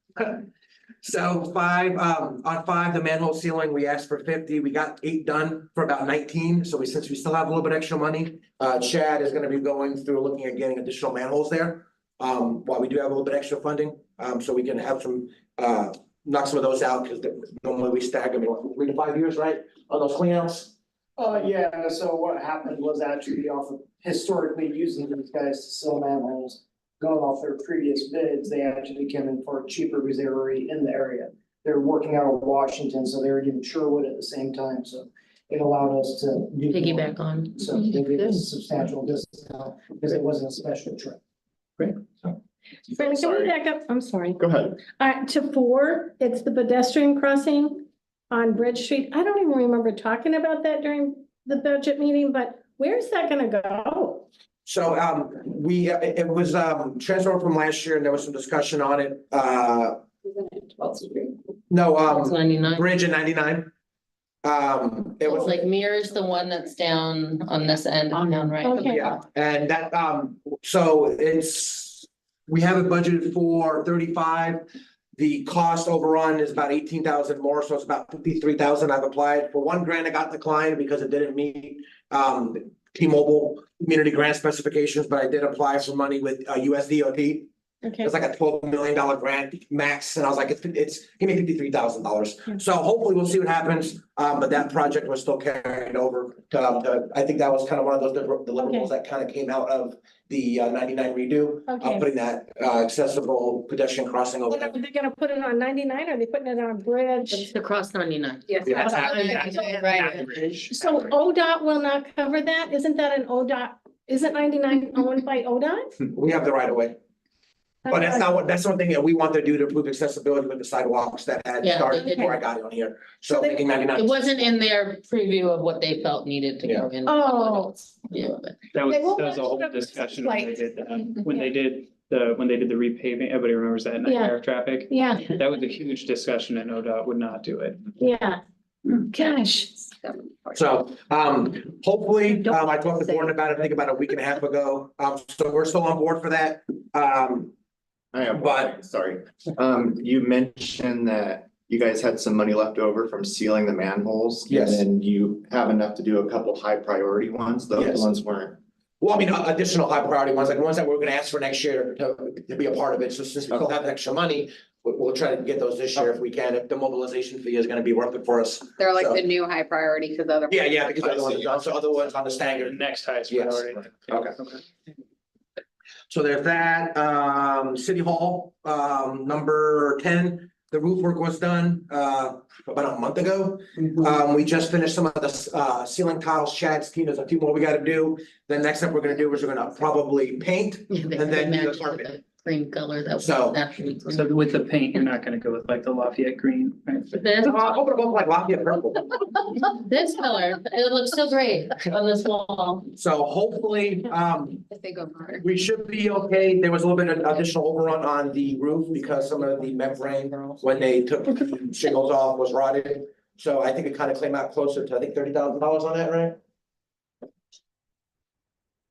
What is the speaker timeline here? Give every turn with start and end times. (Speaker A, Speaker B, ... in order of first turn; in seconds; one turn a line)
Speaker A: 0.2-0.5
Speaker A: 1.0-20.7
Speaker B: 21.2-41.2
Speaker C: 36.7-37.6
Speaker D: 42.9-54.3
Speaker E: 43.0-43.5
Speaker E: 44.4-44.8
Speaker A: 54.7-60.0
Speaker F: 60.2-61.4
Speaker A: 61.7-63.7
Speaker C: 62.1-62.9
Speaker A: 64.4-65.6
Speaker C: 65.2-69.2
Speaker D: 68.6-69.1
Speaker A: 68.8-74.7
Speaker A: 75.2-87.5
Speaker D: 87.8-88.1
Speaker A: 88.0-104.8
Speaker D: 98.6-98.9
Speaker D: 101.7-102.1
Speaker D: 104.5-107.5
Speaker C: 107.3-110.7
Speaker F: 108.5-108.9
Speaker D: 108.7-109.8
Speaker G: 108.8-110.8
Speaker F: 109.5-110.1
Speaker D: 110.7-115.9
Speaker A: 116.1-117.0
Speaker D: 117.8-118.3
Speaker A: 117.9-124.5
Speaker C: 121.6-122.4
Speaker D: 123.3-123.6
Speaker C: 124.0-128.7
Speaker A: 126.7-126.9
Speaker D: 127.0-127.8
Speaker G: 128.7-137.8
Speaker D: 128.9-131.5
Speaker D: 134.1-134.4
Speaker D: 134.9-135.3
Speaker D: 138.0-138.4
Speaker D: 139.1-139.7
Speaker F: 139.7-140.8
Speaker A: 140.6-147.5
Speaker E: 148.1-158.6
Speaker A: 148.3-148.8
Speaker A: 154.5-154.8
Speaker A: 157.8-158.1
Speaker A: 159.0-169.2
Speaker F: 168.8-170.9
Speaker A: 170.5-174.4
Speaker E: 171.0-171.6
Speaker G: 172.4-174.6
Speaker A: 176.1-192.1
Speaker C: 190.9-194.3
Speaker A: 193.2-193.6
Speaker G: 194.1-197.1
Speaker C: 197.1-197.8
Speaker A: 197.4-199.1
Speaker C: 199.6-202.9
Speaker A: 202.9-204.6
Speaker F: 204.7-205.5
Speaker A: 205.4-216.4